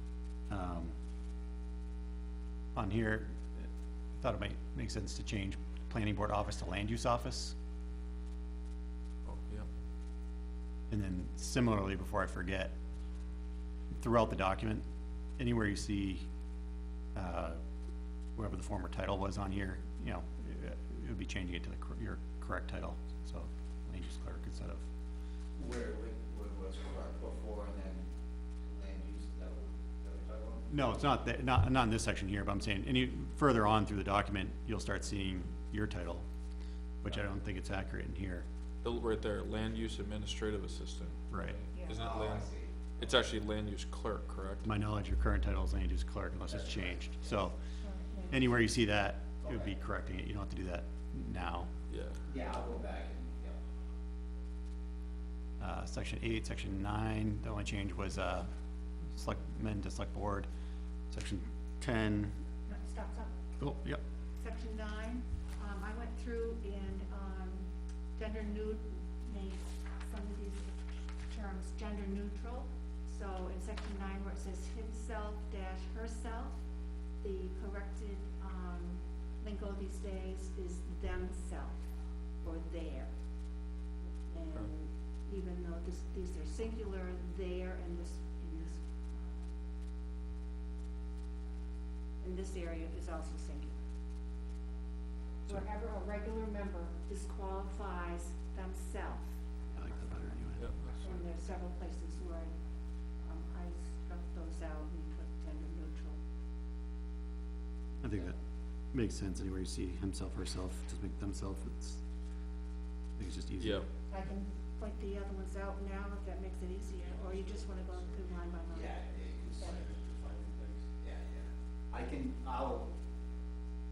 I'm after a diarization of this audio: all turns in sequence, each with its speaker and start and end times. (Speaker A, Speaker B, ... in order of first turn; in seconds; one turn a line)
Speaker A: 0.5-0.9
Speaker A: 2.8-7.5
Speaker B: 9.3-9.7
Speaker A: 10.9-12.7
Speaker A: 14.0-14.8
Speaker A: 15.4-16.3
Speaker A: 17.1-17.6
Speaker A: 18.4-24.9
Speaker C: 25.6-28.1
Speaker C: 28.6-30.8
Speaker A: 30.7-36.2
Speaker A: 37.0-38.5
Speaker B: 38.8-41.2
Speaker A: 41.3-41.6
Speaker D: 41.7-42.1
Speaker B: 41.9-42.5
Speaker C: 41.9-42.9
Speaker B: 43.0-44.6
Speaker A: 44.6-47.5
Speaker C: 46.5-47.0
Speaker D: 47.8-48.4
Speaker A: 48.3-51.7
Speaker C: 49.4-49.7
Speaker B: 51.9-52.2
Speaker C: 52.3-53.6
Speaker A: 55.6-58.5
Speaker A: 59.1-60.5
Speaker A: 61.1-62.4
Speaker D: 62.6-63.4
Speaker A: 63.6-64.0
Speaker D: 64.4-76.6
Speaker D: 77.2-81.8
Speaker D: 82.4-83.1
Speaker D: 84.0-89.5
Speaker D: 92.2-93.8
Speaker D: 95.5-99.4
Speaker A: 99.7-100.7
Speaker B: 100.6-101.2
Speaker D: 101.0-102.5
Speaker D: 103.2-106.2
Speaker A: 108.0-108.4
Speaker A: 108.9-112.0
Speaker A: 113.2-113.8
Speaker D: 114.1-119.8
Speaker C: 118.7-119.9
Speaker A: 119.7-120.8
Speaker C: 121.0-122.9